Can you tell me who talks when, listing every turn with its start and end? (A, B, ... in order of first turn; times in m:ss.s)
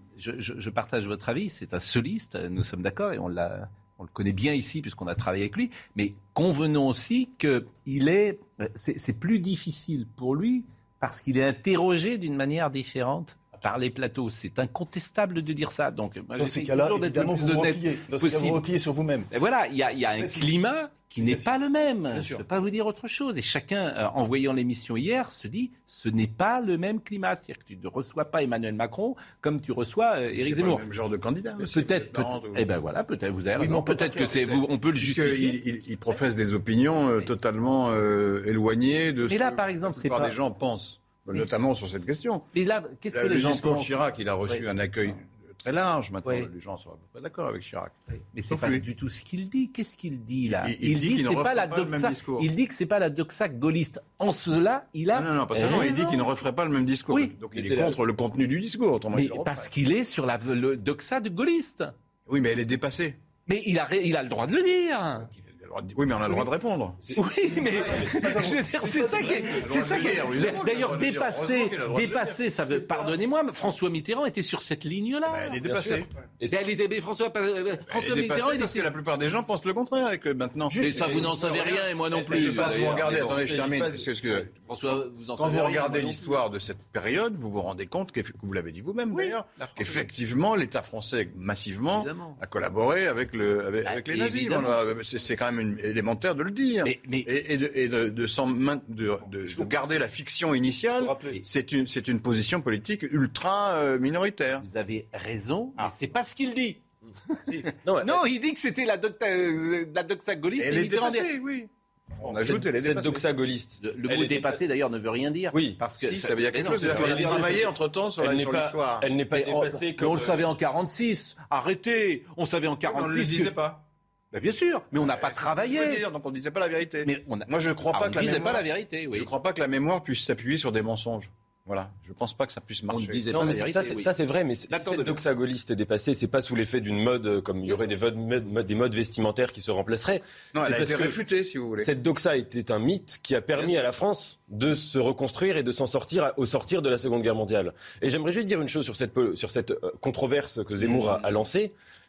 0:00.2-0:18.6 A
0:16.4-0:19.4 B
0:19.3-0:30.8 A
0:20.2-0:20.6 B
0:21.2-0:21.5 B
0:22.1-0:22.4 B
0:30.3-0:32.7 C
0:31.6-0:35.6 A
0:33.6-0:34.6 B
0:35.0-0:42.5 C
0:39.3-0:40.3 A
0:42.5-0:44.6 A
0:43.1-0:47.9 C
0:46.2-0:46.5 A
0:48.3-0:56.3 A
0:48.5-0:48.8 C
0:50.4-0:52.5 C
0:55.1-0:59.7 C
0:57.1-0:57.9 A
0:59.1-1:01.9 A
1:02.3-1:03.2 C
1:03.5-1:05.3 A
1:05.3-1:07.0 C
1:07.1-1:10.2 B
1:07.1-1:18.9 A
1:09.6-1:12.7 C
1:12.7-1:13.1 B
1:15.2-1:16.1 C
1:15.8-1:16.6 D
1:17.9-1:44.6 C
1:20.7-1:21.9 B
1:20.8-1:23.6 A
1:22.3-1:24.0 D
1:24.5-1:26.3 A
1:29.1-1:30.1 A
1:31.9-1:32.4 A
1:33.8-1:34.8 A
1:36.8-1:37.3 A
1:39.3-1:40.1 B
1:41.0-1:41.4 B
1:44.6-1:47.4 A
1:47.8-1:48.2 D
1:48.0-1:51.3 A
1:50.6-1:53.2 C
1:52.2-1:54.6 D
1:53.8-1:57.7 A
1:55.5-1:55.8 D
1:56.0-1:59.1 C
1:56.8-1:57.6 D
1:58.2-2:00.4 D
1:59.3-2:03.6 A
2:02.8-2:03.8 C
2:04.3-2:06.0 A
2:04.9-2:13.2 C
2:07.0-2:09.3 A
2:12.9-2:14.1 A
2:13.3-2:21.2 D
2:14.7-2:15.2 A
2:20.5-2:21.9 C
2:21.8-2:31.7 D
2:30.8-2:31.2 C